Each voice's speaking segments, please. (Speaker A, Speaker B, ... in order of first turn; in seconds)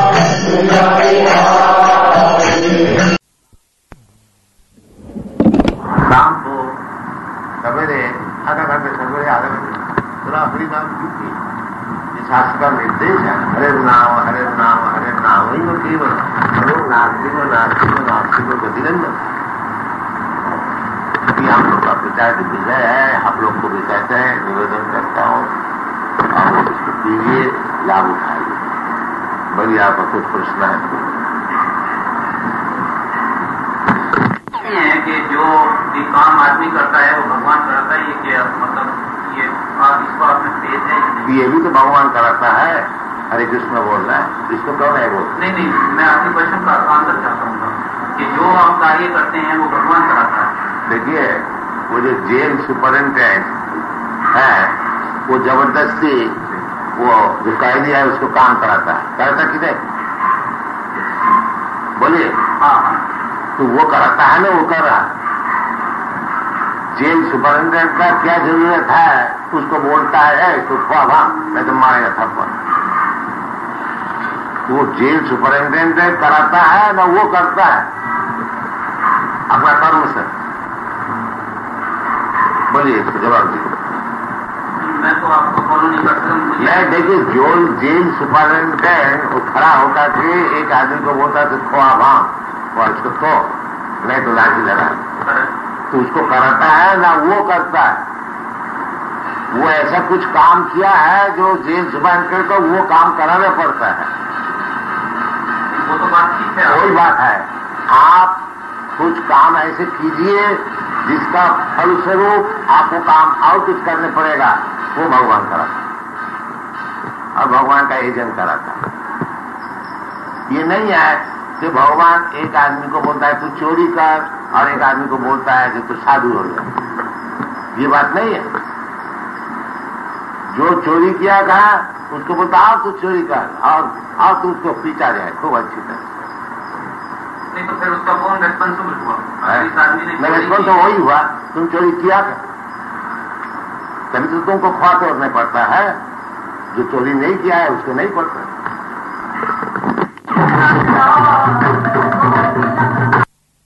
Speaker A: 0.2-1.8, 6.0-6.8, 7.6-11.4, 12.1-19.2, 21.3-25.5, 26.3-28.6, 29.5-30.9, 41.2-45.3, 50.9-53.6, 54.3-59.8, 62.0-62.4, 63.6-65.1, 66.9-72.5, 74.7-77.9, 79.5-80.3, 82.7-83.7, 86.6-95.1, 95.9-98.0, 99.5-104.1, 106.6-108.4, 109.0-115.8, 117.3-118.8, 120.5-126.7, 127.7-128.5, 130.5-136.0, 139.5-142.4, 144.1-146.0, 146.7-148.5
Speaker B: 34.6-41.4, 45.3-50.5, 62.6-63.0, 84.7-87.4, 95.2-95.5, 105.7-107.0, 137.5-140.9, 150.7-152.8